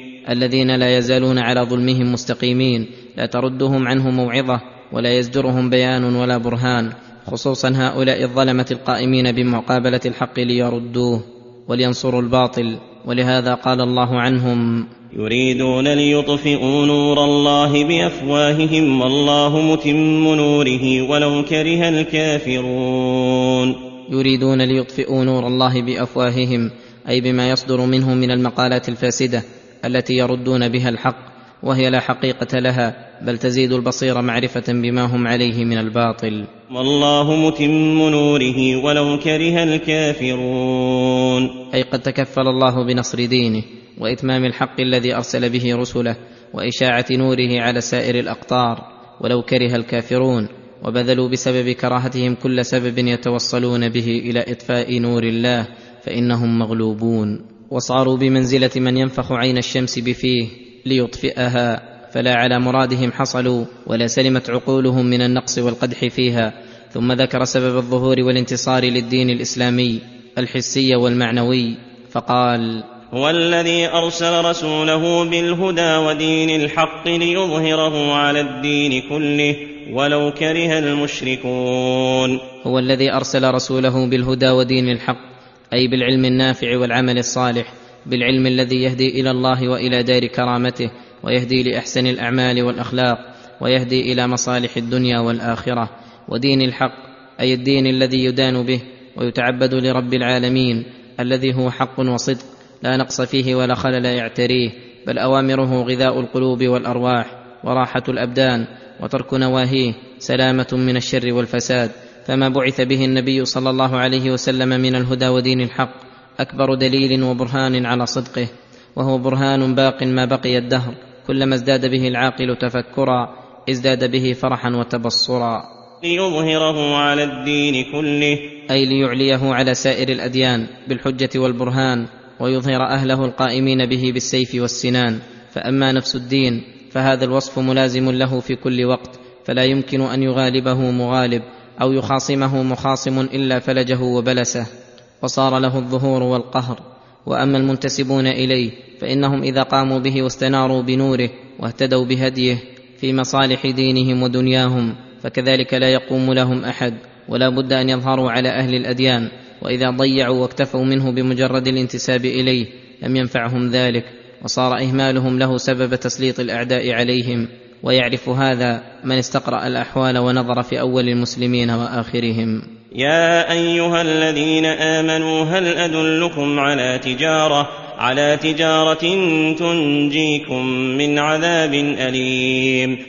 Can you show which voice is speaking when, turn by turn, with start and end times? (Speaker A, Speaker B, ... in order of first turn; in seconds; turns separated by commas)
Speaker A: 0.3-14.9, Speaker B: 15.1-23.8, Speaker A: 24.1-36.5, Speaker B: 36.7-41.5, Speaker A: 41.7-72.8, Speaker B: 73.1-82.4, Speaker A: 82.6-125.7, Speaker B: 126.0-128.5, Speaker A: 128.7-144.7, Speaker A: 145.2-172.6, Speaker B: 172.9-183.0